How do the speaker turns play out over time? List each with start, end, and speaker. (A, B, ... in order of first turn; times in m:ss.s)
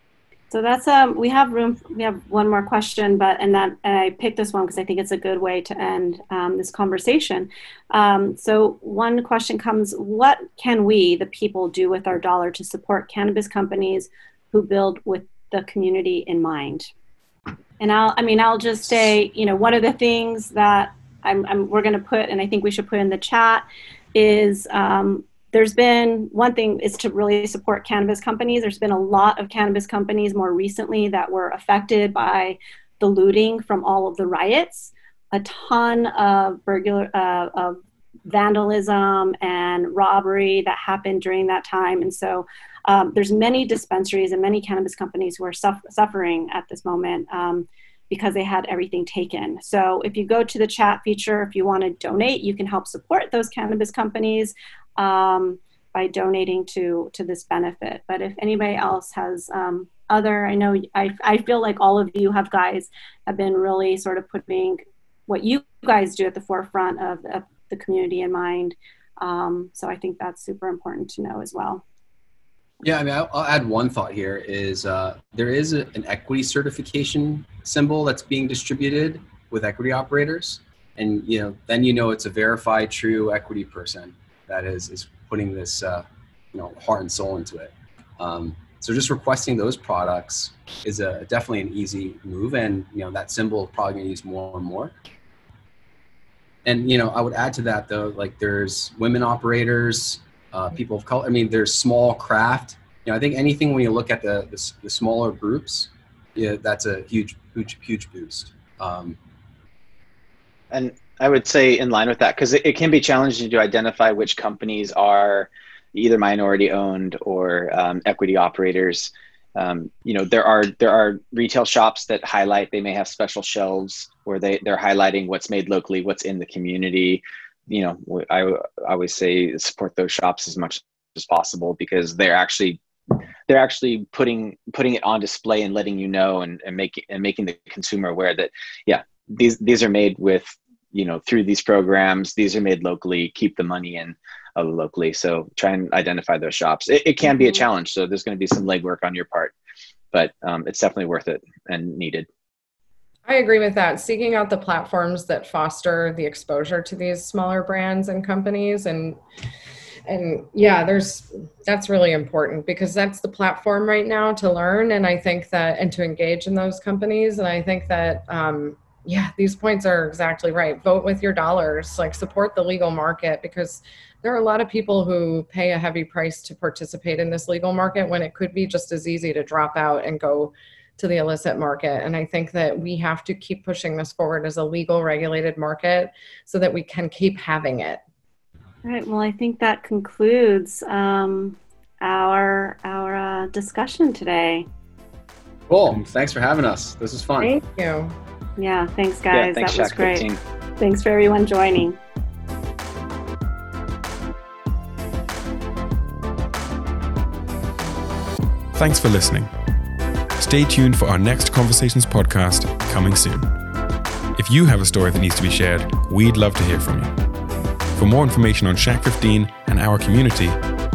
0:00.5-0:16.9 A
0:17.8-1:11.8 A
1:12.8-1:34.9 B
1:36.6-1:49.2 B
1:50.7-2:12.8 C
2:13.5-2:29.5 C
2:30.1-2:32.3 C
2:33.2-2:39.2 D
2:40.1-3:08.0 D
3:08.8-3:14.7 A
3:15.7-3:17.5 B
3:17.4-3:18.1 D
3:18.6-3:22.0 A
3:19.3-3:20.4 C
3:28.7-3:29.5 E
3:30.4-3:33.5 E
3:34.4-3:37.1 E
3:37.9-3:40.6 E